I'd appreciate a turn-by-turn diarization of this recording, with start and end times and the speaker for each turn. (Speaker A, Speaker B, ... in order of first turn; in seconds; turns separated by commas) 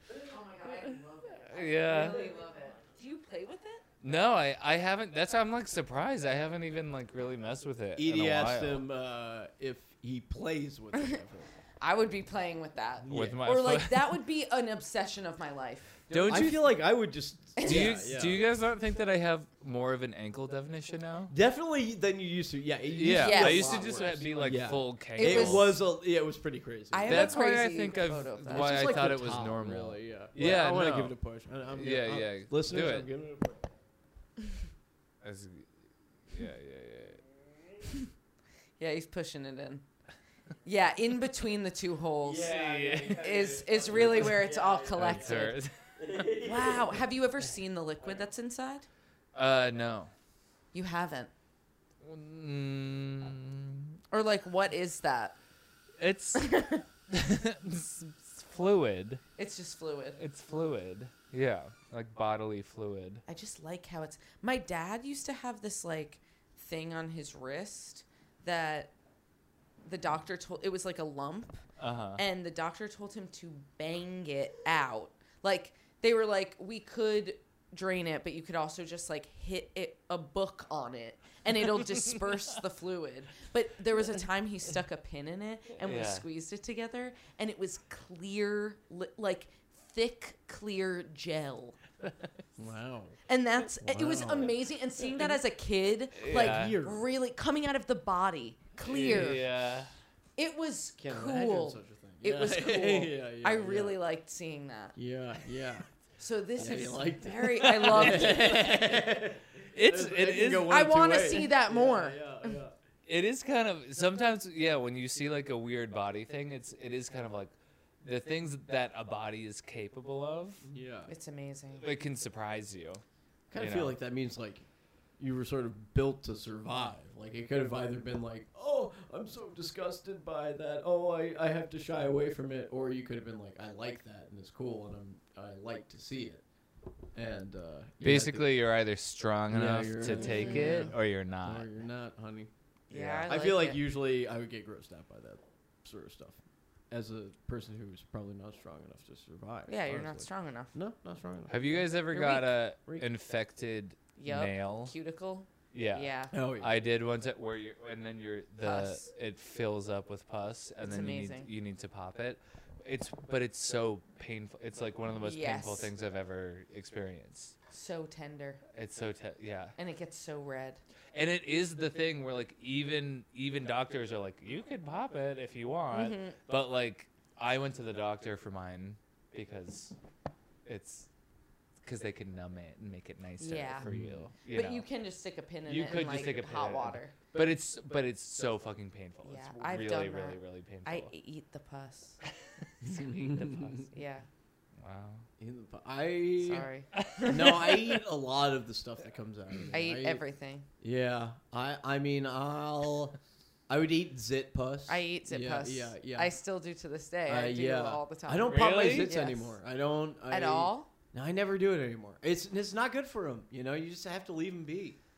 Speaker A: 0.1-3.8, Speaker B: 1.5-2.2, Speaker B: 4.0-8.8, Speaker C: 8.0-11.5, Speaker A: 11.8-15.9, Speaker C: 13.0-13.4, Speaker B: 13.1-14.2, Speaker B: 16.1-16.7, Speaker C: 16.1-18.4, Speaker A: 17.6-17.9, Speaker B: 17.6-21.3, Speaker C: 21.3-27.4, Speaker B: 22.9-25.7, Speaker A: 23.1-24.1, Speaker A: 25.2-25.8, Speaker A: 26.9-28.9, Speaker B: 27.1-31.1, Speaker C: 28.5-33.6, Speaker B: 31.7-33.1, Speaker B: 35.2-35.7, Speaker B: 36.2-37.2, Speaker A: 38.8-39.8, Speaker A: 40.6-42.5, Speaker C: 42.2-47.0, Speaker B: 42.4-46.3, Speaker A: 43.0-45.6, Speaker A: 46.4-48.9, Speaker B: 49.3-50.1, Speaker A: 50.7-51.3, Speaker B: 52.0-53.9, Speaker A: 54.1-55.4, Speaker B: 56.0-56.5, Speaker A: 56.4-56.8, Speaker B: 57.1-59.2, Speaker A: 59.4-60.2, Speaker B: 60.2-63.2, Speaker A: 63.2-68.9, Speaker A: 69.8-71.6, Speaker B: 71.8-72.2, Speaker A: 72.2-91.8, Speaker B: 85.8-86.2, Speaker C: 92.6-93.2, Speaker A: 93.3-99.5, Speaker C: 93.8-95.3, Speaker B: 96.2-96.8, Speaker C: 96.3-97.0, Speaker B: 98.8-99.9, Speaker C: 99.1-99.3, Speaker A: 100.4-105.0, Speaker C: 101.0-104.0, Speaker C: 105.0-105.9, Speaker A: 106.2-108.8, Speaker C: 106.6-112.7, Speaker B: 107.9-108.5, Speaker B: 109.7-110.8, Speaker A: 110.7-112.6, Speaker B: 113.1-117.5, Speaker B: 118.0-120.6, Speaker C: 120.6-121.1, Speaker A: 121.1-121.8, Speaker B: 121.8-123.0, Speaker C: 123.5-124.6, Speaker B: 123.5-124.0, Speaker C: 125.2-136.4, Speaker C: 137.1-138.5, Speaker B: 138.0-141.7, Speaker C: 139.5-142.5, Speaker A: 140.1-140.9, Speaker A: 142.9-143.8, Speaker B: 142.9-143.3, Speaker C: 143.2-146.4, Speaker C: 146.9-151.6, Speaker A: 149.7-150.7, Speaker B: 151.5-154.9, Speaker A: 152.1-152.5, Speaker A: 154.2-156.3, Speaker B: 155.7-167.5, Speaker C: 156.3-156.8, Speaker A: 158.6-159.1, Speaker A: 160.8-161.5, Speaker A: 165.2-165.9, Speaker A: 167.7-168.6, Speaker B: 168.7-169.7, Speaker A: 169.8-170.8, Speaker B: 171.1-179.9, Speaker A: 175.9-176.4, Speaker B: 180.7-181.1, Speaker B: 181.8-184.9, Speaker A: 183.4-183.9, Speaker C: 183.8-184.3, Speaker A: 184.5-187.1, Speaker B: 185.7-191.1, Speaker A: 189.2-192.2, Speaker C: 192.8-193.7, Speaker A: 192.8-194.2, Speaker B: 194.8-195.2, Speaker C: 195.4-196.7, Speaker A: 196.4-197.7, Speaker B: 196.9-198.0, Speaker C: 197.3-200.2, Speaker A: 199.7-200.7, Speaker C: 200.8-203.2, Speaker C: 203.7-206.3, Speaker A: 204.9-209.6, Speaker C: 207.3-215.0, Speaker B: 208.4-209.1, Speaker A: 210.3-210.9